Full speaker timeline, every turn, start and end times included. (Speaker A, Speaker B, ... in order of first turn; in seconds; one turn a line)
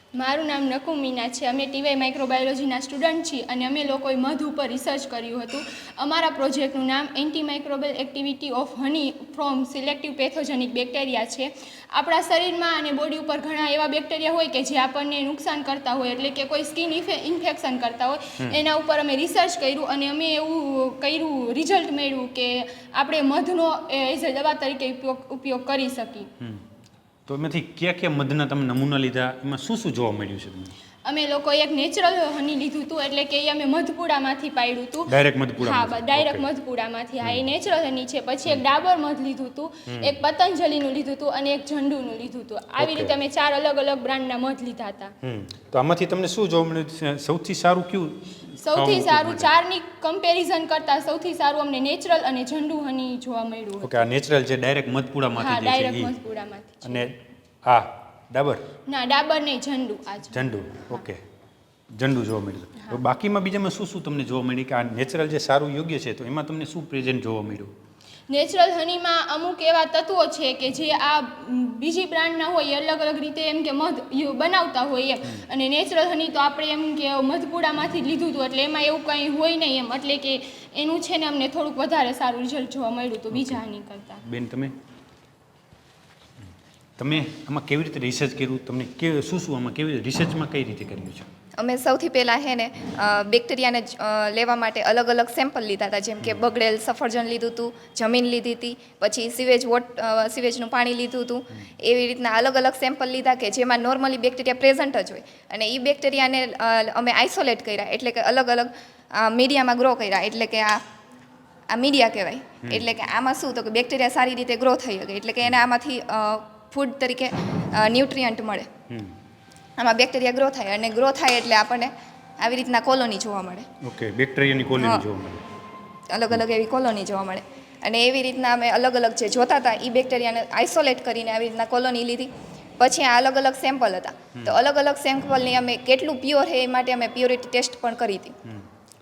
Speaker A: 0.2-26.3
Speaker B: 27.3-30.7
Speaker A: 31.1-45.1
Speaker B: 35.1-36.5
Speaker B: 37.2-37.5
Speaker B: 39.9-40.2
Speaker B: 42.8-43.2
Speaker B: 45.2-49.5
Speaker A: 48.6-54.1
Speaker B: 53.8-56.1
Speaker A: 55.4-57.1
Speaker B: 56.8-58.6
Speaker A: 58.9-61.0
Speaker B: 60.3-61.2
Speaker B: 61.9-67.7
Speaker A: 68.3-84.2
Speaker B: 83.3-83.6
Speaker B: 84.2-84.7
Speaker B: 87.0-91.3
Speaker C: 91.6-110.8
Speaker C: 111.7-118.7
Speaker B: 112.6-112.9
Speaker C: 119.8-123.7
Speaker B: 123.8-125.4
Speaker C: 124.8-125.0
Speaker C: 126.1-138.3